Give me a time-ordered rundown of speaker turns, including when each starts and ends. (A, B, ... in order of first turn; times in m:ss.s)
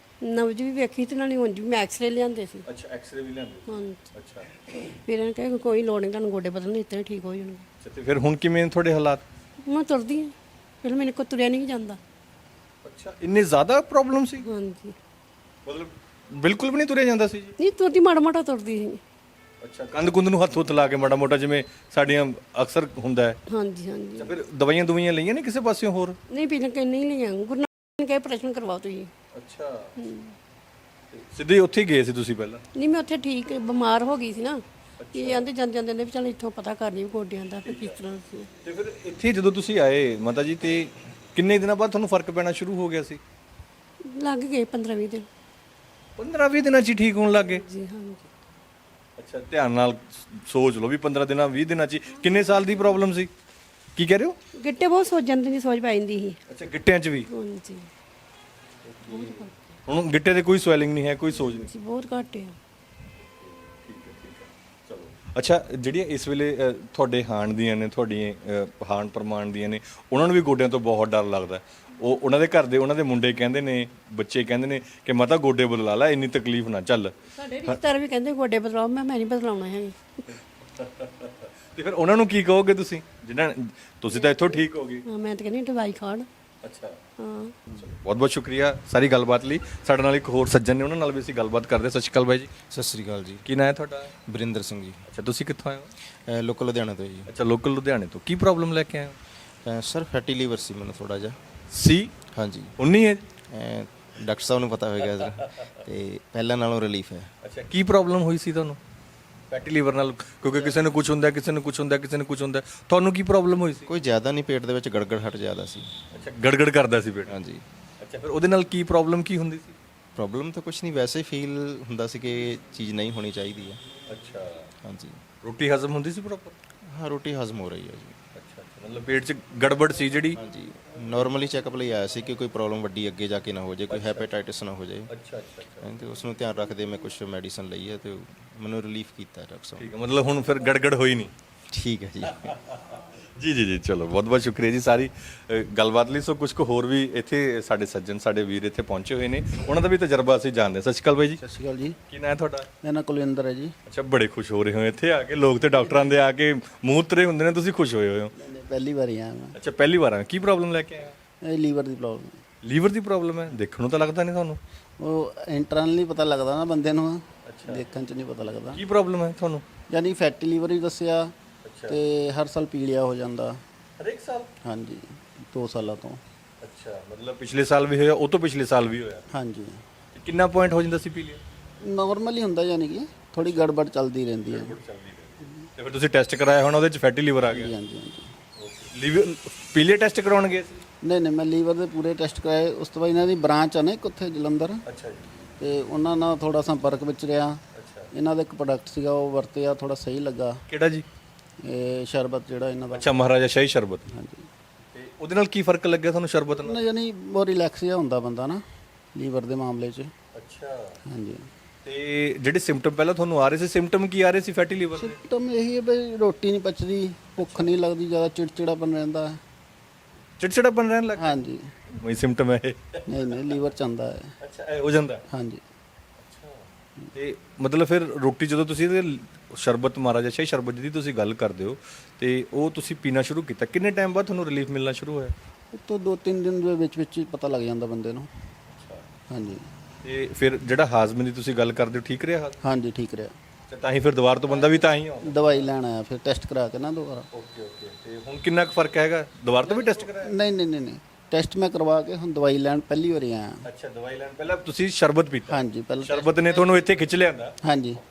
0:00.2-0:02.6 A
0:02.6-0:04.5 B
0:03.7-0:04.1 A
0:04.8-0:07.6 A
0:07.8-0:09.2 B
0:09.6-0:12.0 A
0:12.8-0:14.4 B
0:14.4-0:15.0 A
0:15.6-0:17.5 B
0:17.6-0:19.0 A
0:19.6-0:23.4 B
0:23.5-0:24.4 A
0:24.2-0:26.2 B
0:26.3-0:29.1 A
0:29.3-0:29.9 B
0:30.0-0:30.4 A
0:31.1-0:32.6 B
0:32.7-0:38.5 A
0:35.0-0:35.5 B
0:37.6-0:38.0 B
0:38.6-0:43.2 B
0:44.0-0:45.3 A
0:46.2-0:47.6 B
0:47.3-0:48.3 A
0:49.2-0:53.3 B
0:52.1-0:53.0 A
0:54.0-0:54.4 B
0:54.6-0:56.4 A
0:56.5-0:57.3 B
0:57.3-0:57.9 A
0:58.8-1:01.7 B
0:59.0-0:59.7 A
1:01.3-1:02.6 A
1:03.4-1:17.8 B
1:17.3-1:20.4 A
1:20.8-1:25.0 B
1:25.0-1:26.3 A
1:26.6-1:27.0 B
1:27.2-1:27.6 A
1:27.7-1:32.5 B
1:32.7-1:33.4 C
1:33.4-1:34.1 B
1:34.2-1:35.0 C
1:35.1-1:35.9 B
1:36.3-1:37.3 C
1:37.3-1:39.2 B
1:39.6-1:41.4 C
1:41.7-1:42.1 B
1:42.3-1:42.7 C
1:42.8-1:43.2 B
1:43.5-1:47.3 C
1:47.4-1:48.8 B
1:49.5-1:53.9 B
1:53.9-1:55.9 C
1:56.1-1:57.4 B
1:57.3-1:57.6 C
1:58.0-1:59.7 B
2:00.2-2:03.8 C
2:04.1-2:04.7 B
2:04.8-2:05.2 C
2:05.4-2:06.5 B
2:06.9-2:08.1 C
2:08.3-2:10.4 B
2:10.4-2:15.1 C
2:13.9-2:14.3 B
2:15.1-2:15.9 B
2:15.8-2:19.9 C
2:19.8-2:21.3 B
2:21.7-2:22.5 C
2:22.4-2:31.4 B
2:31.4-2:32.0 D
2:32.1-2:32.6 B
2:32.8-2:33.7 D
2:33.9-2:38.3 B
2:38.4-2:39.6 D
2:39.6-2:41.1 B
2:41.4-2:42.4 D
2:42.6-2:44.6 B
2:45.0-2:48.8 D
2:47.4-2:47.8 B
2:48.7-2:49.6 B
2:49.9-2:51.3 D
2:51.6-2:52.0 B
2:51.9-2:53.6 D
2:54.0-2:54.5 B
2:54.6-2:56.2 D
2:56.6-2:59.2 B
2:59.3-2:59.8 D
3:00.1-3:01.4 B
3:01.8-3:04.7 D
3:03.4-3:03.8 B
3:04.5-3:07.7 B
3:07.4-3:08.3 D
3:08.6-3:10.7 B
3:11.0-3:14.8 D
3:14.9-3:15.3 B
3:15.6-3:17.6 D
3:17.7-3:18.1 B
3:18.1-3:20.6 D
3:20.7-3:21.0 B
3:21.6-3:23.1 D
3:22.9-3:24.0 B
3:24.1-3:24.5 D
3:24.9-3:26.8 B
3:26.5-3:28.6 D
3:29.1-3:30.1 D
3:30.3-3:31.0 B
3:31.1-3:31.5 D
3:31.8-3:35.2 B
3:34.9-3:39.4 D
3:37.4-3:37.7 B
3:40.4-3:41.3 B
3:41.2-3:41.6 D
3:42.0-3:43.0 B
3:43.1-3:44.3 D
3:44.4-3:45.2 B
3:45.3-3:45.6 D
3:46.2-3:55.3 B
3:55.7-3:58.3 D
3:58.7-3:59.0 B
3:59.3-3:59.6 D
4:00.0-4:02.6 B
4:02.6-4:03.3 D
4:03.7-4:05.7 B
4:04.5-4:07.2 D
4:07.3-4:10.3 B
4:09.6-4:13.7 D
4:13.6-4:17.6 B
4:15.5-4:16.8 D
4:17.6-4:18.0 D